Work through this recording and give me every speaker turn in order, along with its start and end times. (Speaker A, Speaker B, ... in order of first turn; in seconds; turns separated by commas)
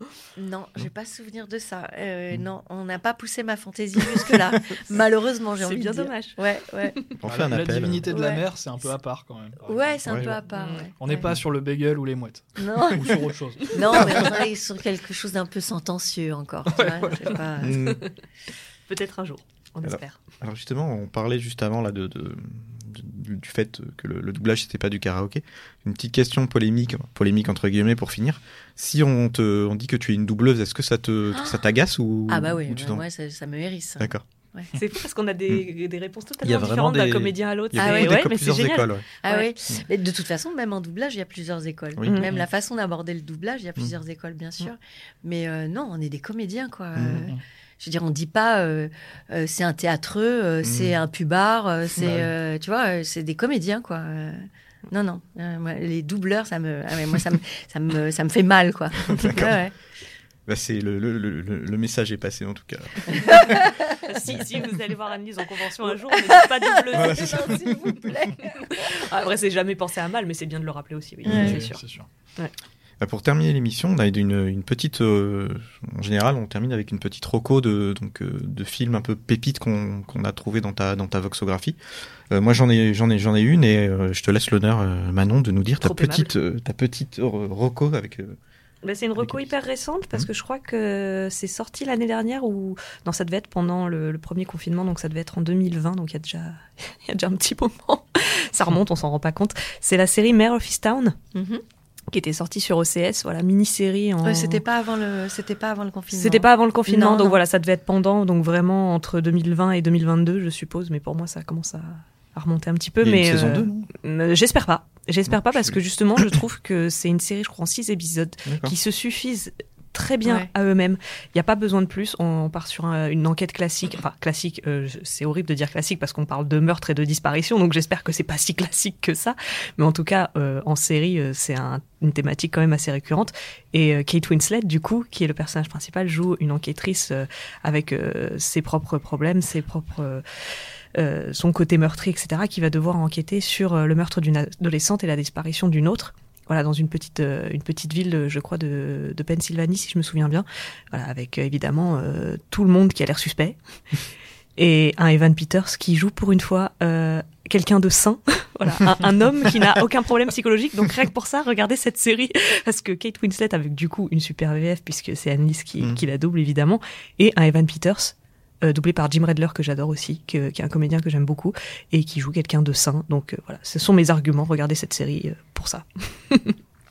Speaker A: 0.4-7.0, Speaker B: 5.6-7.1, Speaker C: 7.2-8.1, Speaker D: 7.2-10.4, Speaker A: 8.1-8.4, Speaker A: 9.6-11.3, Speaker C: 10.1-10.4, Speaker B: 10.6-10.9, Speaker D: 11.0-14.4, Speaker A: 12.6-17.8, Speaker D: 16.7-17.4, Speaker C: 17.6-18.1, Speaker B: 17.8-18.1, Speaker B: 18.9-20.2, Speaker C: 19.8-33.0, Speaker A: 31.3-31.6, Speaker A: 32.3-34.7, Speaker B: 34.7-39.5, Speaker C: 36.4-39.1, Speaker A: 37.8-38.3, Speaker A: 39.2-59.7, Speaker C: 42.0-42.2, Speaker B: 42.1-42.3, Speaker C: 47.0-47.3, Speaker C: 50.6-51.0, Speaker C: 52.0-52.3, Speaker C: 59.0-59.6, Speaker C: 60.5-63.6, Speaker A: 63.1-64.2, Speaker B: 63.9-67.6, Speaker A: 65.8-69.0, Speaker C: 66.9-68.3, Speaker B: 68.4-71.8, Speaker C: 71.3-71.6, Speaker D: 71.3-72.1, Speaker C: 73.0-81.8, Speaker C: 82.3-88.4, Speaker B: 85.8-86.3, Speaker B: 88.8-101.2, Speaker C: 89.2-89.5, Speaker A: 101.3-101.6, Speaker B: 102.1-104.6, Speaker A: 104.2-107.4, Speaker B: 106.1-153.6, Speaker C: 113.0-113.9, Speaker C: 115.3-115.8, Speaker C: 118.5-118.8, Speaker A: 120.2-120.5, Speaker B: 154.6-176.6